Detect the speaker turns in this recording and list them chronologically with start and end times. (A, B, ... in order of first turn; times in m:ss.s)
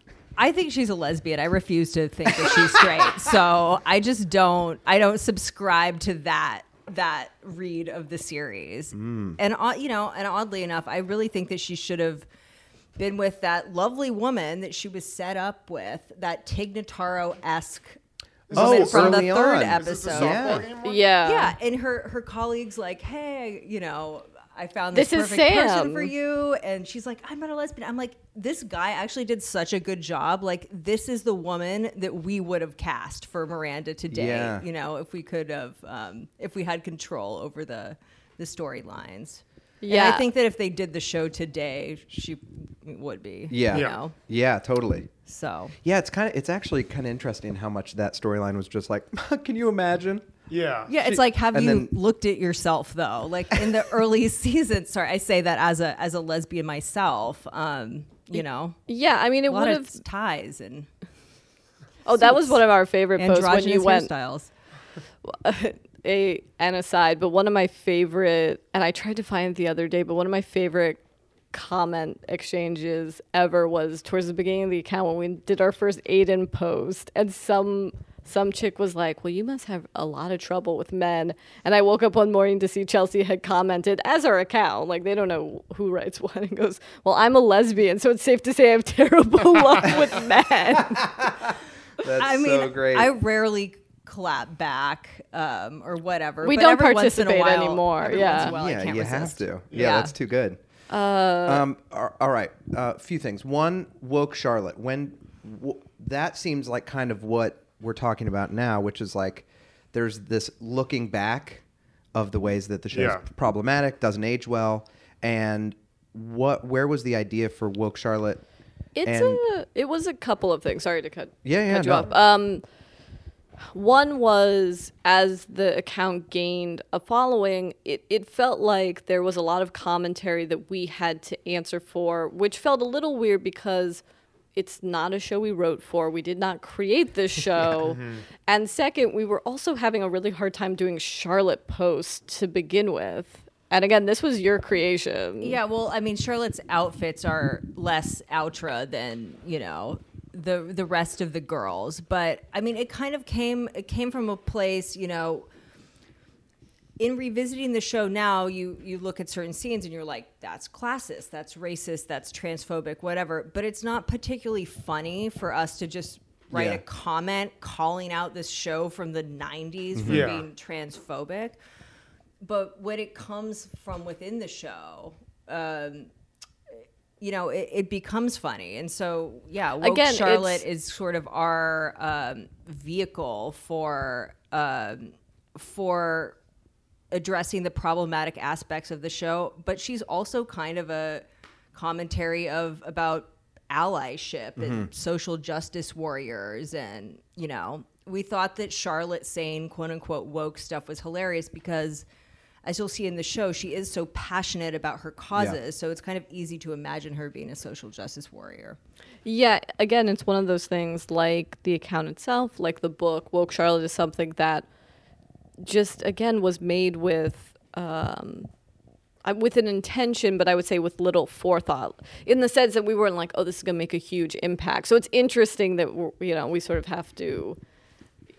0:00.4-0:12.2 A
0:08.9-0:09.4 B
0:13.0-0:18.0 A
0:18.5-0:21.0 C
0:18.5-0:20.6 A
0:18.5-0:20.7 B
0:20.8-0:21.6 D
0:21.2-0:44.2 A
0:24.9-0:26.1 D
0:34.1-0:34.6 B
0:39.8-0:40.2 D
0:43.5-0:45.1 B
0:43.7-0:44.0 C
0:45.2-0:45.7 A
0:45.8-0:50.3 B
0:50.5-0:50.9 C
0:50.9-0:58.8 A
0:51.0-0:51.9 B
0:58.4-1:00.0 D
0:59.5-1:00.9 A
1:02.0-1:04.1 D
1:02.1-1:02.6 A
1:03.1-1:04.5 A
1:05.2-1:11.0 D
1:11.5-1:31.1 D
1:30.7-1:33.1 B
1:32.1-1:40.1 A
1:36.4-1:38.5 D
1:38.3-1:40.6 B
1:39.7-1:40.0 C
1:40.9-1:41.6 D
1:41.4-1:51.6 B
1:52.1-1:58.4 B
1:52.9-1:53.2 C
1:58.9-2:02.6 D
1:59.0-1:59.4 B
2:01.4-2:02.1 B
2:03.7-2:14.0 D
2:14.5-2:25.6 D
2:17.7-2:18.2 C
2:25.4-2:35.5 A
2:37.0-2:51.6 A
2:46.5-2:46.8 B
2:49.9-2:50.3 B
2:50.0-2:50.5 C
2:52.4-2:56.1 A
2:57.2-3:06.4 A
2:59.8-3:00.6 D
3:07.1-3:22.0 A
3:14.6-3:14.9 B
3:22.6-3:28.8 A
3:29.2-3:34.6 D
3:35.6-3:38.5 D
3:39.2-3:47.6 D